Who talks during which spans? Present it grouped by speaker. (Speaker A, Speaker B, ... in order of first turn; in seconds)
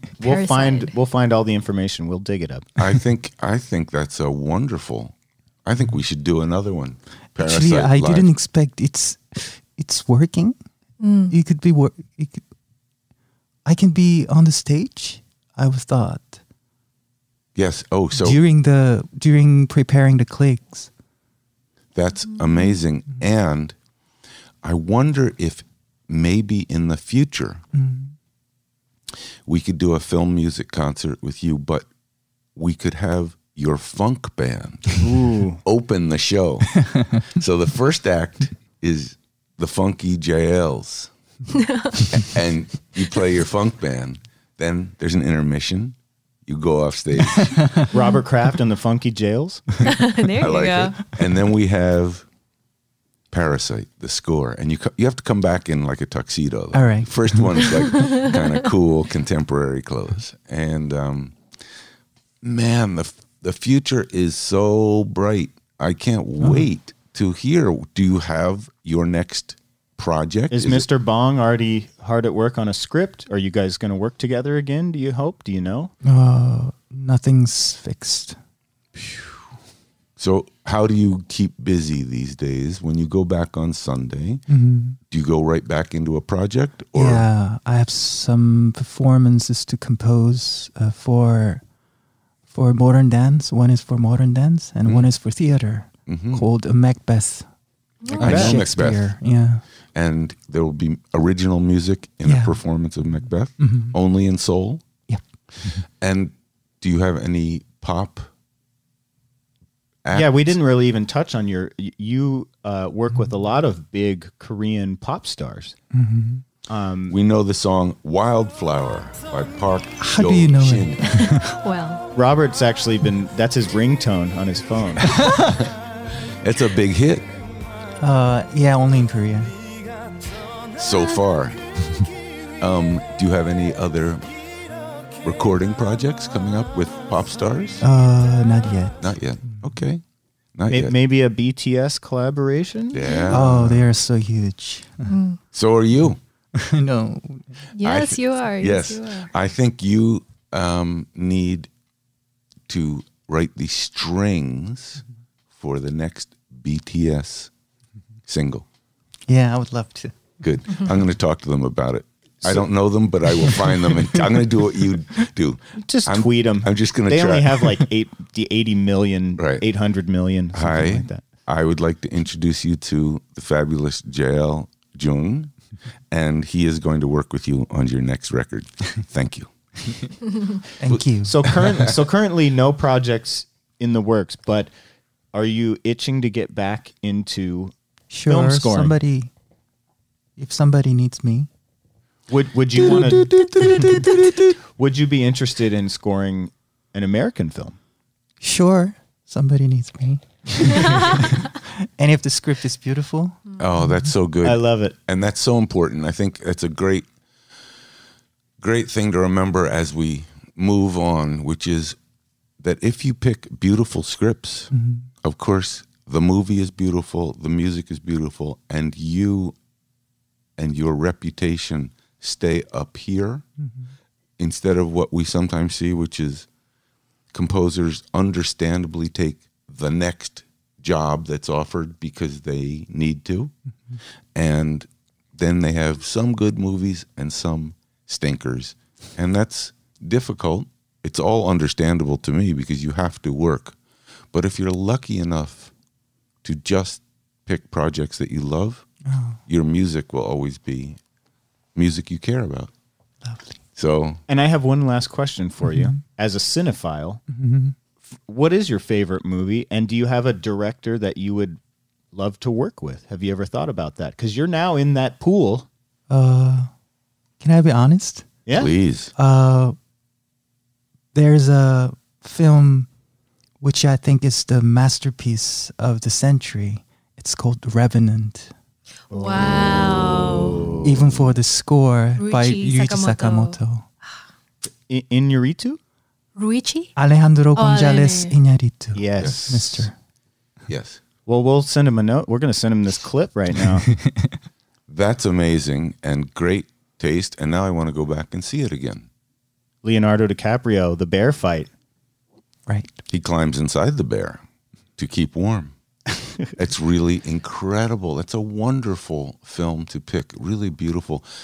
Speaker A: 0.2-2.7, 35.0-35.6, 47.9-49.7, 70.5-75.9, 98.2-98.6, 110.1-115.8, 116.7-117.2, 122.2-125.1, 140.7-143.2, 165.9-171.2, 181.2-184.7, 185.3-187.7, 188.3-189.0, 192.3-194.2, 194.8-197.8, 204.4-204.9, 254.3-257.2, 258.1-261.6, 262.1-265.7, 279.1-281.3, 284.9-285.8, 288.9-289.9, 291.3-293.9, 299.8-301.7
Speaker B: 0.2-0.9, 11.0-11.3, 50.0-51.0, 98.0-98.3, 121.6-122.0, 145.1-145.4, 147.8-149.3, 279.1-280.6, 282.2-283.6, 286.4-286.9, 287.6-288.3
Speaker C: 2.8-8.3, 17.6-18.4, 21.9-23.8, 24.6-27.6, 29.5-31.9, 32.5-35.0, 35.6-41.1, 42.1-47.6, 50.4-52.3, 53.3-61.4, 62.4-70.9, 80.2-84.4, 85.1-87.3, 96.1-96.5, 98.2-99.2, 99.9-104.8, 106.0-108.3, 110.0-110.5, 117.1-121.2, 126.4-127.3, 130.8-131.9, 132.6-134.3, 135.2-137.8, 139.0-140.0, 140.6-140.9, 142.9-143.9, 145.5-146.2, 147.8-151.7, 152.7-155.0, 155.5-157.5, 158.3-158.7, 160.4-167.8, 169.4-169.7, 170.5-175.5, 176.1-180.1, 180.8-181.9, 192.9-194.1, 203.6-207.1, 208.6-212.0, 212.6-214.7, 215.2-219.6, 220.6-223.4, 224.4-226.5, 227.3-233.5, 234.3-243.8, 244.3-245.7, 246.4-248.9, 249.5-251.0, 251.8-252.7, 253.8-254.2, 268.6-269.1, 289.2-289.8, 290.7-291.0, 294.9-299.1, 303.1-304.4, 305.0-305.7, 306.6-311.3
Speaker D: 7.4-10.6, 11.3-12.4, 13.7-16.4, 18.2-20.9, 27.7-28.1, 47.3-47.9, 56.7-57.6, 66.4-66.7, 76.0-78.4, 84.5-85.0, 87.0-91.6, 92.5-97.5, 98.0-99.6, 102.2-102.6, 103.6-104.0, 105.1-105.8, 115.9-116.4, 120.0-121.5, 128.0-129.6, 137.8-139.6, 143.3-145.2, 146.0-147.5, 159.3-160.2, 163.4-164.3, 180.8-181.4, 188.1-189.3, 190.4-191.5, 192.8-194.2, 198.4-201.3, 202.0-204.1, 214.7-215.1, 249.1-249.4, 253.2-253.6, 255.6-256.0, 257.3-257.8, 266.1-266.7, 267.4-268.3, 269.2-269.8, 271.1-272.9, 273.6-278.5, 280.8-283.9, 286.9-290.0, 293.9-294.3, 302.7-302.9